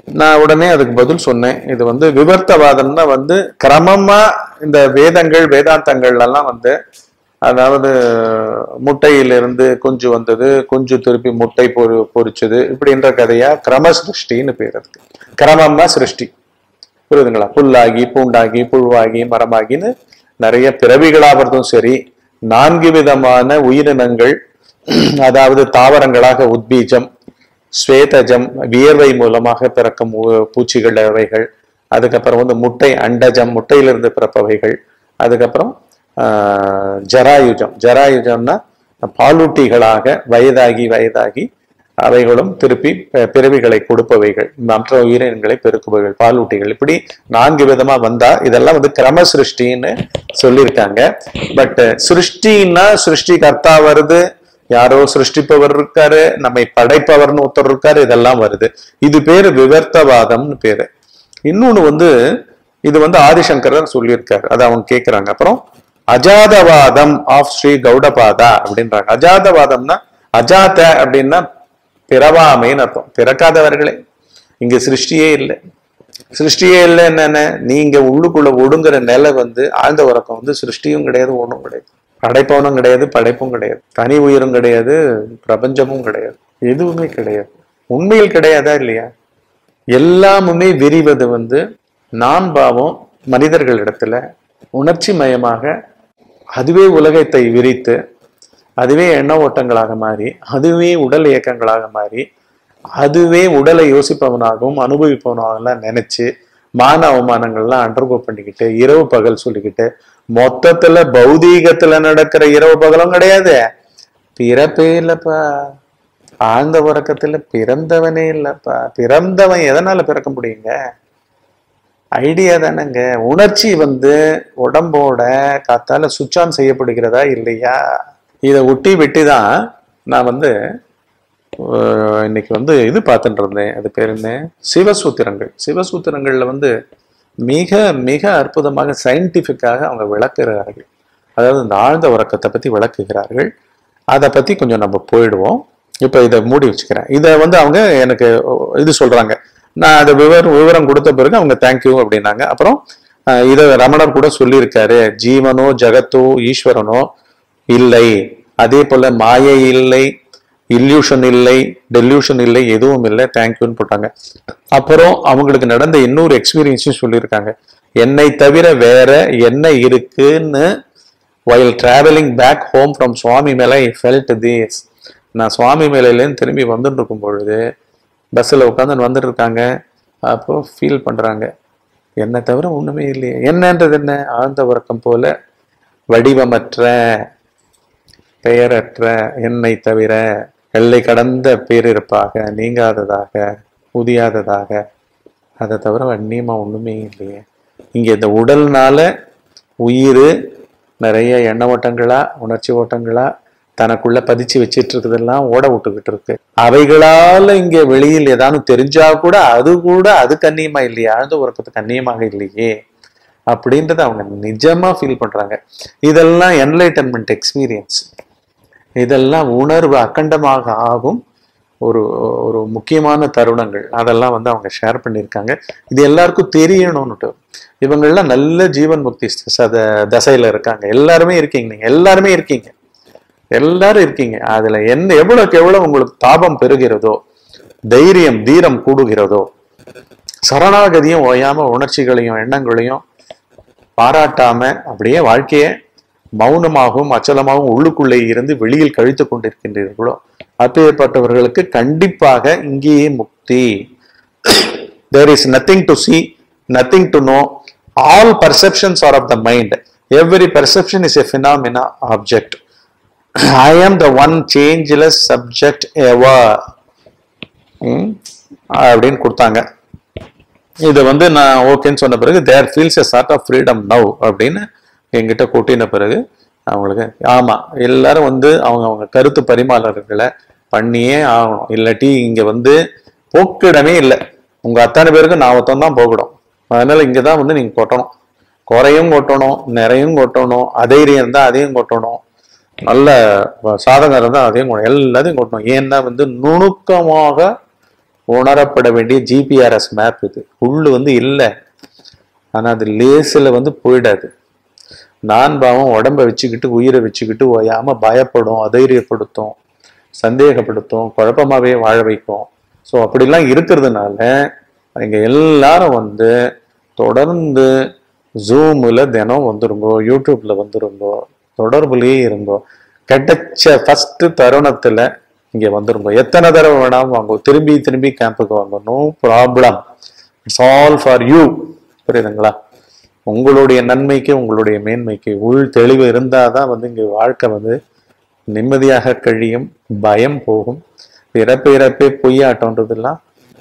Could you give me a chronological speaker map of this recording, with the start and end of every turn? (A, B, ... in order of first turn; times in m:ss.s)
0:00.2-0:06.7 A
0:07.4-0:16.3 A
0:17.1-0:22.0 A
0:22.5-0:24.4 A
0:24.9-0:27.1 A
0:27.8-0:41.5 A
0:42.0-1:00.9 A
1:01.5-1:02.1 A
1:02.9-1:05.6 A
1:06.1-1:11.4 A
1:12.1-1:14.0 A
1:14.6-1:15.6 A
1:16.3-1:29.1 A
1:30.0-1:31.6 A
1:32.2-1:34.2 A
1:34.8-1:35.7 A
1:36.6-1:38.0 A
1:38.8-1:42.2 A
1:43.0-1:46.3 A
1:46.8-1:53.6 A
1:54.4-1:55.4 A
1:56.5-2:00.7 A
2:02.2-2:07.8 A
2:08.5-2:09.5 A
2:10.1-2:10.5 A
2:11.7-2:16.7 A
2:17.4-2:20.9 A
2:21.4-2:23.5 A
2:24.1-2:32.8 A
2:33.4-2:37.1 A
2:37.7-2:40.1 A
2:40.7-2:44.1 A
2:44.8-2:50.7 A
2:51.5-2:54.8 A
2:55.4-2:57.6 A
2:58.4-2:59.6 A
3:00.3-3:01.5 A
3:02.2-3:05.3 A
3:06.1-3:07.0 A
3:08.4-3:14.8 A
3:15.6-3:17.4 A
3:18.0-3:19.1 A
3:19.8-3:20.3 A
3:21.0-3:23.3 A
3:23.8-3:32.7 A
3:33.5-3:38.0 A
3:39.0-3:41.2 A
3:41.8-3:52.7 A
3:53.6-3:57.2 A
3:57.9-3:59.5 A
4:00.5-4:03.0 A
4:04.0-4:05.7 A
4:06.4-4:13.7 A
4:14.5-4:17.5 A
4:18.0-4:22.6 A
4:23.6-4:26.6 A
4:27.8-4:28.2 A
4:28.8-4:29.6 A
4:30.9-4:36.2 A
4:36.7-4:42.8 A
4:43.3-4:48.1 A
4:48.7-4:52.2 A
4:52.9-4:57.5 A
4:58.3-5:01.5 A
5:02.6-5:04.3 A
5:05.3-5:09.5 A
5:10.2-5:14.3 A
5:15.0-5:16.3 A
5:17.0-5:17.7 A
5:18.5-5:29.8 A
5:30.5-5:32.6 A
5:33.3-5:37.8 A
5:38.5-5:40.8 A
5:41.3-5:43.2 A